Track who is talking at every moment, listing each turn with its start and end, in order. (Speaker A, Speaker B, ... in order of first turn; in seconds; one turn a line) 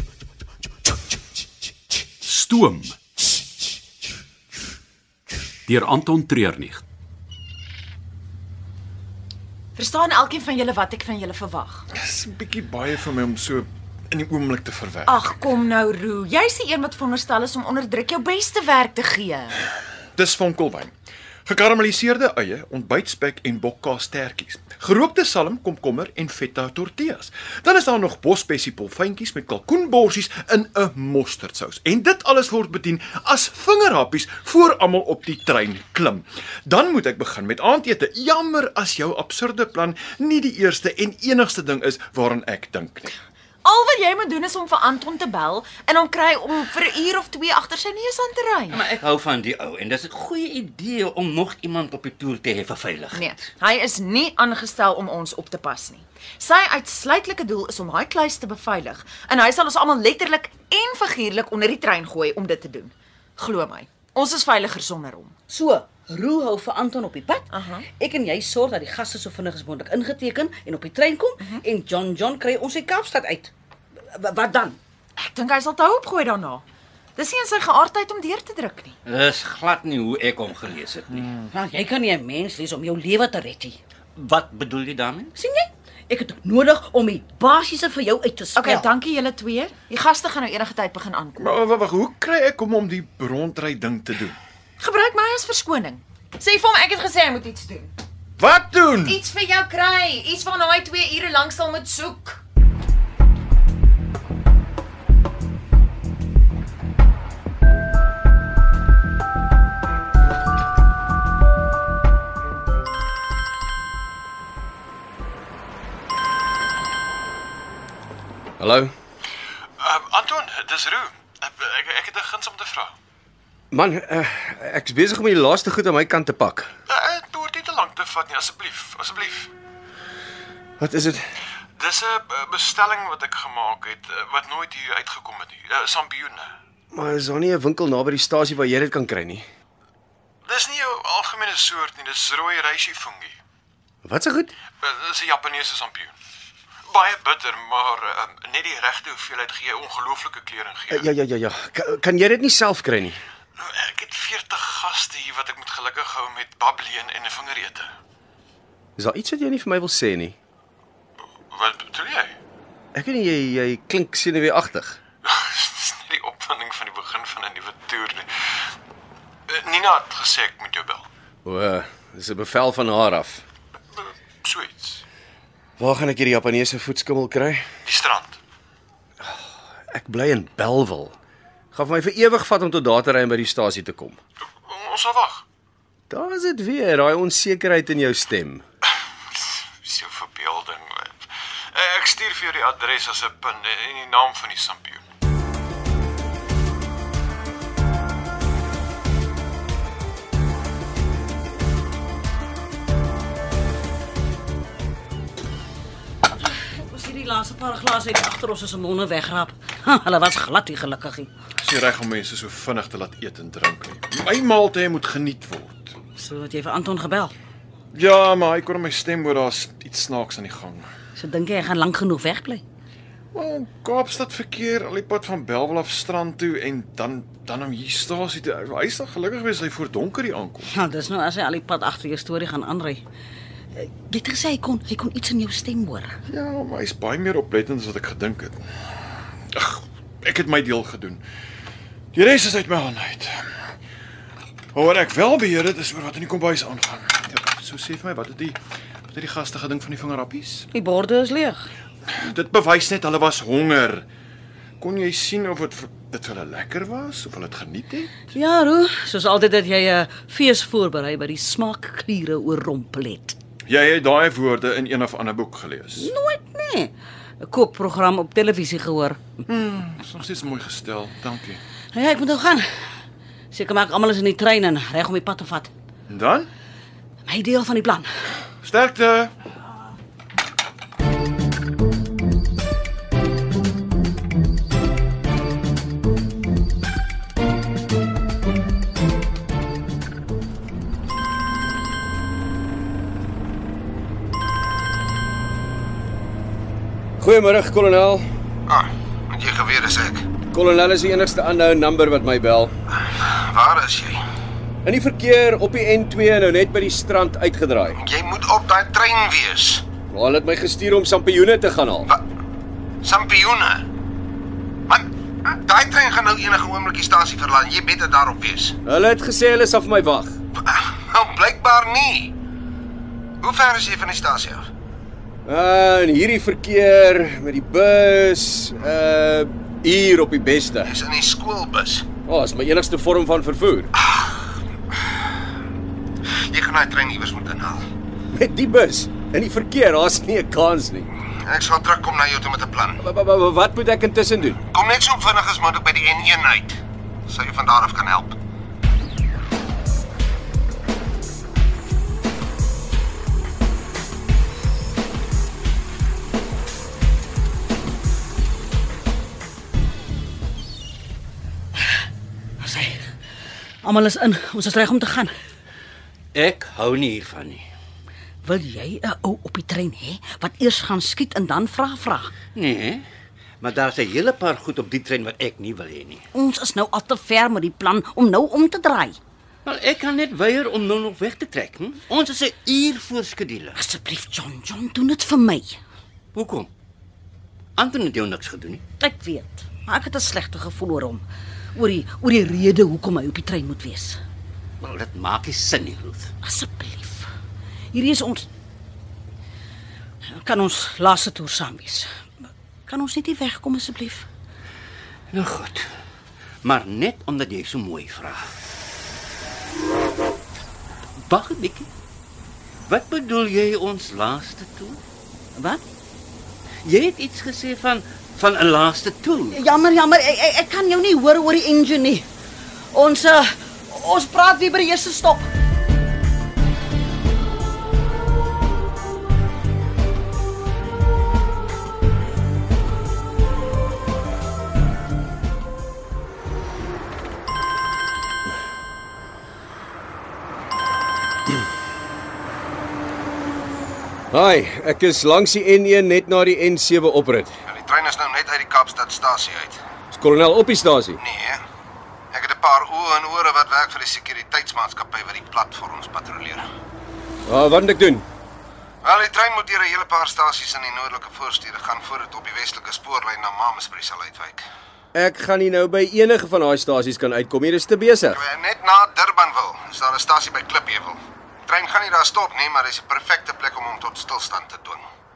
Speaker A: 2.2-3.0
Speaker A: 5.7-6.8
Speaker B: 9.8-11.9
Speaker C: 11.9-15.2
Speaker B: 15.1-19.6
Speaker C: 20.2-20.9
Speaker C: 21.5-43.1
Speaker B: 43.6-48.8
Speaker D: 48.7-53.4
Speaker B: 53.1-65.3
Speaker E: 65.5-73.5
Speaker B: 67.5-67.9
Speaker E: 74.1-74.8
Speaker B: 75.2-76.6
Speaker B: 77.2-79.0
Speaker D: 79.0-81.4
Speaker E: 81.5-83.8
Speaker D: 84.2-85.3
Speaker E: 85.3-88.8
Speaker B: 88.5-91.5
Speaker C: 91.4-94.4
Speaker B: 94.8-97.9
Speaker C: 98.4-99.2
Speaker B: 99.0-102.4
Speaker F: 118.6-118.9
Speaker C: 119.8-122.9
Speaker F: 123.7-126.7
Speaker C: 126.9-129.5
Speaker F: 130.8-131.2
Speaker C: 131.8-136.5
Speaker F: 136.9-139.4
Speaker C: 140.4-143.4
Speaker F: 144.1-144.5
Speaker C: 144.8-146.1
Speaker C: 146.9-151.1
Speaker F: 150.9-153.2
Speaker C: 153.6-157.9
Speaker F: 159.0-160.4
Speaker C: 161.5-162.3
Speaker F: 162.9-165.0
Speaker C: 165.2-168.3
Speaker C: 169.5-171.1
Speaker F: 171.4-173.4
Speaker C: 174.4-175.0
Speaker F: 175.8-177.6
Speaker C: 177.9-178.4
Speaker F: 179.2-181.2
Speaker F: 181.7-184.2
Speaker C: 184.7-185.4
Speaker F: 186.1-188.6
Speaker C: 189.8-195.0
Speaker E: 206.4-211.3
Speaker C: 211.6-215.9
Speaker E: 216.2-217.3
Speaker C: 217.9-220.9
Speaker E: 221.2-222.6
Speaker C: 223.3-230.7
Speaker E: 230.7-233.0
Speaker E: 233.8-236.2
Speaker C: 236.3-238.7
Speaker C: 239.5-241.2
Speaker C: 242.1-243.4
Speaker C: 244.7-248.6
Speaker C: 249.1-250.7
Speaker E: 250.7-251.7
Speaker C: 252.2-254.0
Speaker C: 254.8-258.1
Speaker E: 258.3-263.3
Speaker C: 263.7-266.1
Speaker E: 266.0-269.2
Speaker C: 269.5-271.6
Speaker E: 271.9-272.6
Speaker E: 273.5-275.7
Speaker C: 276.1-276.5
Speaker E: 277.2-278.1
Speaker C: 278.6-279.3
Speaker F: 297.2-298.2
Speaker G: 298.7-300.3
Speaker F: 300.5-302.7
Speaker G: 303.1-304.2
Speaker F: 304.8-308.0
Speaker G: 308.0-309.8
Speaker F: 310.1-312.1
Speaker G: 313.0-313.8
Speaker G: 314.9-318.8
Speaker F: 318.8-320.4
Speaker G: 320.6-322.3
Speaker G: 323.4-324.7
Speaker F: 325.4-330.9
Speaker G: 330.9-332.1
Speaker F: 332.2-333.9
Speaker G: 336.5-337.9
Speaker F: 338.3-341.1
Speaker G: 341.4-343.0
Speaker F: 343.0-344.6
Speaker G: 344.7-348.4
Speaker E: 362.6-363.1
Speaker E: 363.8-365.3
Speaker D: 366.3-367.6
Speaker E: 368.4-372.3
Speaker D: 372.5-373.0
Speaker D: 373.6-376.2
Speaker E: 376.3-379.2
Speaker D: 379.6-383.8
Speaker E: 383.8-385.8
Speaker D: 386.3-386.7
Speaker D: 387.8-388.8
Speaker E: 389.0-394.2
Speaker D: 394.8-396.3
Speaker E: 396.4-397.3
Speaker E: 397.9-398.4
Speaker E: 400.3-402.1
Speaker E: 402.9-404.2
Speaker D: 405.3-405.9
Speaker D: 406.6-408.5
Speaker D: 411.2-411.9
Speaker D: 412.9-415.0
Speaker E: 415.5-415.8
Speaker D: 416.8-419.6
Speaker E: 419.5-422.3
Speaker E: 422.9-425.5
Speaker F: 444.3-447.6
Speaker G: 447.7-449.8
Speaker F: 450.1-451.2
Speaker G: 451.2-451.6
Speaker G: 452.3-456.6
Speaker F: 457.4-458.2
Speaker G: 459.0-464.6
Speaker F: 465.1-468.4
Speaker G: 468.3-475.0